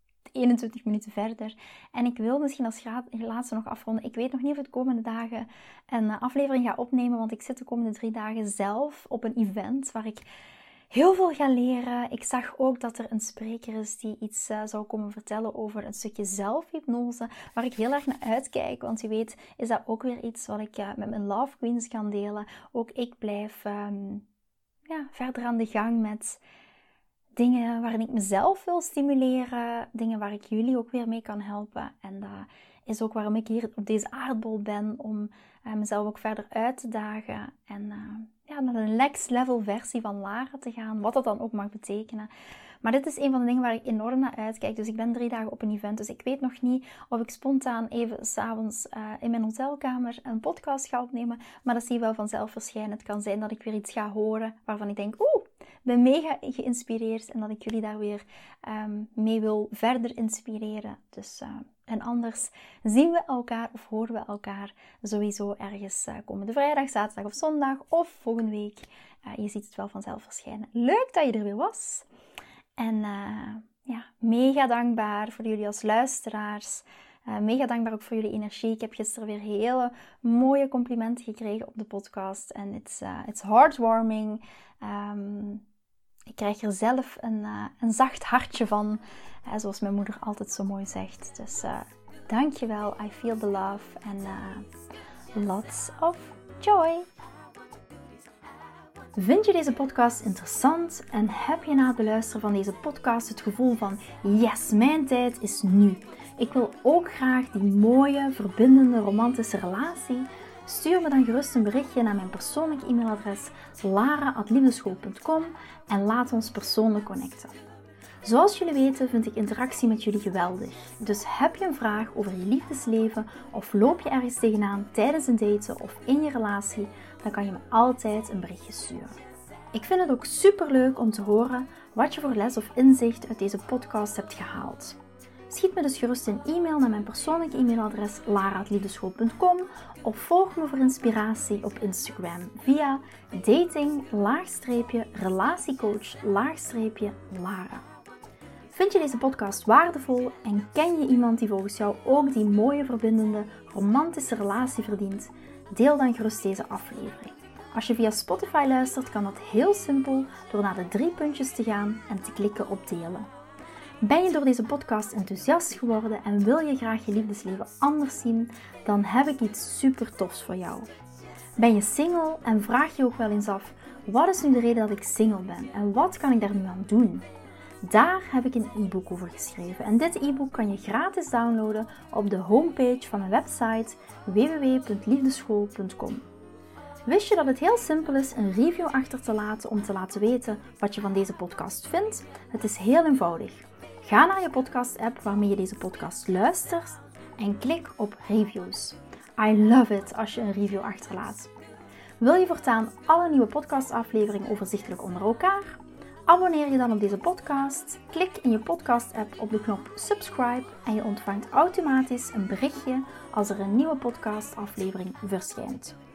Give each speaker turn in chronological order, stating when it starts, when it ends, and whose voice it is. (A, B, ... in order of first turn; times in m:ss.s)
0:00.3-0:10.2 A
0:10.9-0:24.2 A
0:24.9-0:26.4 A
0:27.4-0:42.3 A
0:42.8-1:12.1 A
1:12.8-1:25.6 A
1:26.3-1:34.6 A
1:35.3-1:37.1 A
1:39.2-1:57.6 A
1:58.2-2:09.2 A
2:09.7-2:15.0 A
2:15.5-2:27.8 A
2:28.7-2:43.3 A
2:44.0-2:50.9 A
2:51.6-2:57.3 A
2:57.8-3:06.2 A
3:07.1-3:21.5 A
3:22.2-3:36.0 A